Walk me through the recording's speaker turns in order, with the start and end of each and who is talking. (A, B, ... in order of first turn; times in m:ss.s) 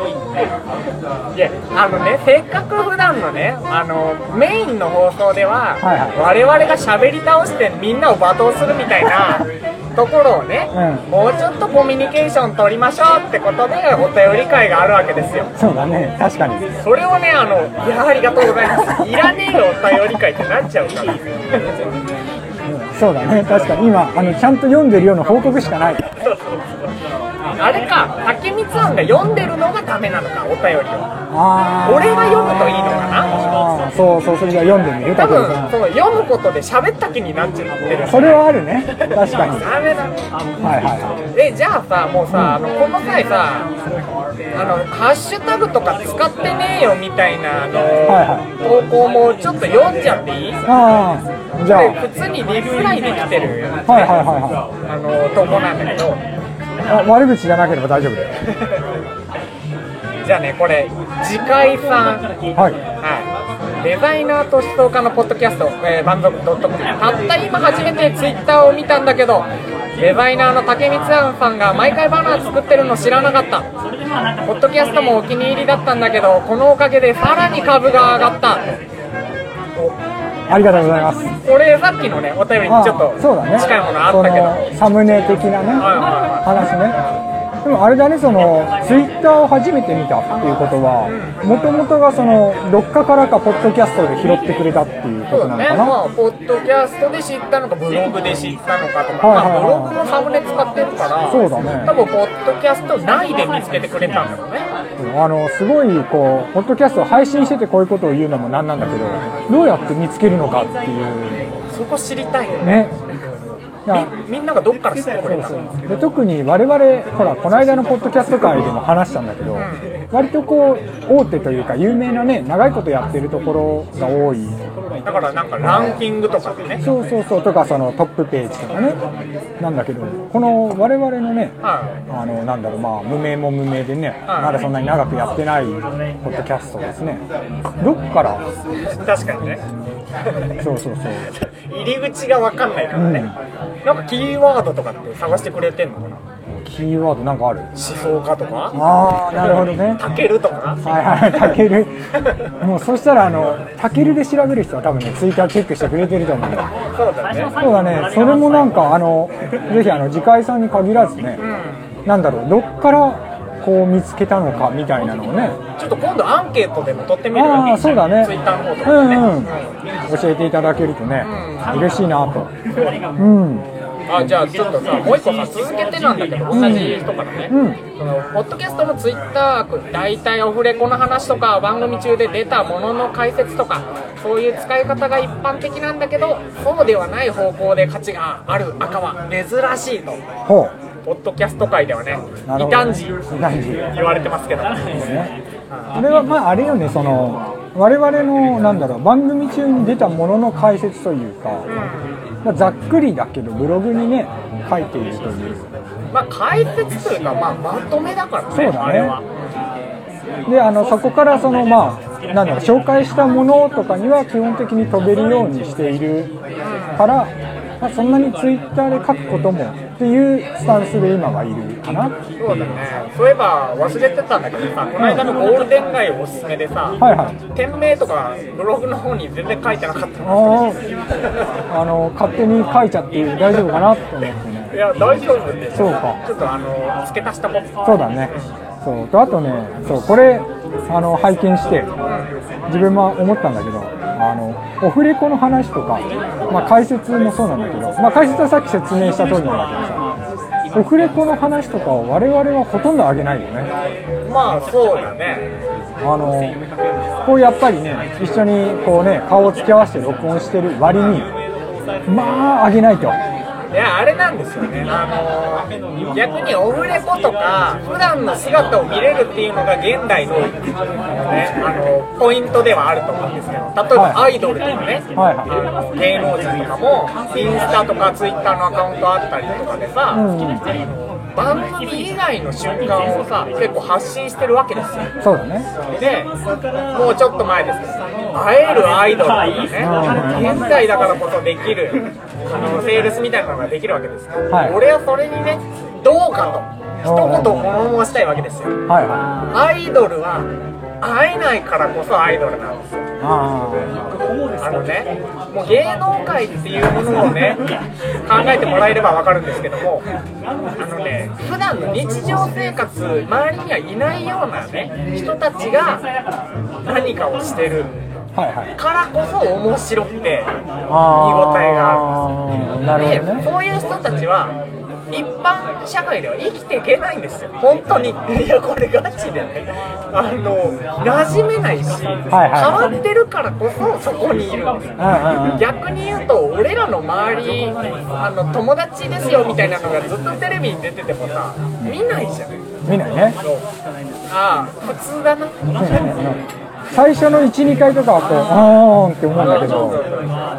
0:01.3-0:15.5 A
0:05.8-0:06.2 B
0:10.7-0:11.0 B
0:15.6-0:16.7 B
0:16.8-0:21.6 A
0:22.6-0:26.2 B
0:26.2-0:26.9 A
0:27.6-0:31.1 A
0:31.3-0:35.8 B
0:31.8-0:33.4 A
0:35.2-0:38.4 A
0:38.0-0:39.7 B
0:39.0-0:40.2 A
0:40.6-0:41.2 B
0:41.3-0:43.7 A
0:42.3-0:42.6 B
0:44.5-0:50.6 A
0:48.0-0:48.4 B
0:50.6-0:52.0 B
0:51.6-0:54.2 A
0:53.9-0:54.6 B
0:54.8-0:56.2 A
0:56.9-0:58.4 B
0:58.5-0:58.7 A
1:00.2-1:02.3 A
1:03.0-1:03.3 A
1:03.8-1:13.7 A
1:14.4-1:18.7 A
1:20.5-1:21.3 B
1:21.4-1:24.7 A
1:22.6-1:27.0 B
1:25.8-1:26.5 A
1:27.6-1:36.0 B
1:31.0-1:31.4 A
1:35.3-1:44.7 A
1:39.2-1:40.0 B
1:41.3-1:42.0 B
1:45.0-1:51.5 B
1:49.0-1:49.3 A
1:51.7-1:53.0 A
1:52.6-1:52.9 B
1:53.9-1:55.9 A
1:55.3-2:04.6 B
1:59.5-1:59.9 A
2:05.0-2:06.8 A
2:05.6-2:06.0 B
2:06.8-2:09.0 B
2:09.6-2:11.6 B
2:11.6-2:12.0 A
2:12.1-2:17.2 B
2:14.3-2:14.6 A
2:17.8-2:18.4 B
2:19.0-2:19.6 A
2:20.6-2:21.3 B
2:21.3-2:26.2 A
2:22.9-2:23.4 B
2:26.5-2:27.7 B
2:27.7-2:28.8 A
2:28.7-2:30.0 B
2:29.4-2:30.8 A
2:30.8-2:36.7 B
2:36.9-2:37.6 A
2:37.6-2:41.4 B
2:41.4-2:41.9 A
2:42.0-2:45.6 B
2:45.8-2:49.7 A
2:47.3-2:49.5 B
2:50.1-2:52.5 B
2:51.2-2:51.8 A
2:52.7-2:53.0 A
2:53.2-2:53.6 B
2:54.1-3:10.2 A
2:56.5-2:57.8 B
3:10.4-3:10.7 B
3:11.0-3:13.2 A
3:12.5-3:13.9 B
3:13.9-3:15.0 A
3:14.9-3:15.3 B
3:15.7-3:16.0 A
3:15.9-3:21.7 B
3:21.7-3:22.2 A
3:22.4-3:25.7 B
3:26.1-3:29.4 A
3:28.5-3:29.2 B
3:30.4-3:36.3 B
3:36.6-3:37.0 A
3:37.0-3:42.1 B
3:42.4-3:47.0 A
3:45.0-3:45.2 B
3:47.0-3:47.4 B
3:47.5-3:50.8 A
3:50.2-3:50.8 B
3:51.7-3:54.8 B
3:54.7-3:58.4 A
3:55.8-3:56.2 B
3:57.8-4:01.9 B
4:02.1-4:02.3 A
4:02.7-4:10.0 B
4:10.7-4:13.7 B
4:14.2-4:15.5 A
4:16.0-4:16.6 B
4:17.2-4:21.3 B
4:22.0-4:23.2 B
4:23.7-4:30.6 A
4:31.1-4:45.1 A
4:33.9-4:34.4 B
4:35.1-4:35.7 B
4:40.1-4:40.7 B
4:45.2-4:45.7 B
4:46.0-4:46.3 A
4:46.9-4:58.8 A
4:49.8-4:50.6 B
4:54.5-4:54.8 B
4:57.0-4:57.6 B
4:58.9-4:59.4 B
4:59.5-5:00.5 A
5:01.0-5:03.0 A
5:03.2-5:04.0 B
5:04.6-5:07.6 A
5:08.2-5:10.0 A
5:10.8-5:16.0 A
5:16.8-5:17.9 A
5:18.4-5:18.7 B
5:18.8-5:22.2 A
5:20.9-5:23.4 B
5:22.9-5:24.6 A
5:25.1-5:42.6 A
5:32.3-5:33.0 B
5:35.0-5:35.7 B
5:42.8-5:43.4 B
5:44.3-5:45.6 A
5:45.8-5:50.0 B
5:49.4-5:50.4 A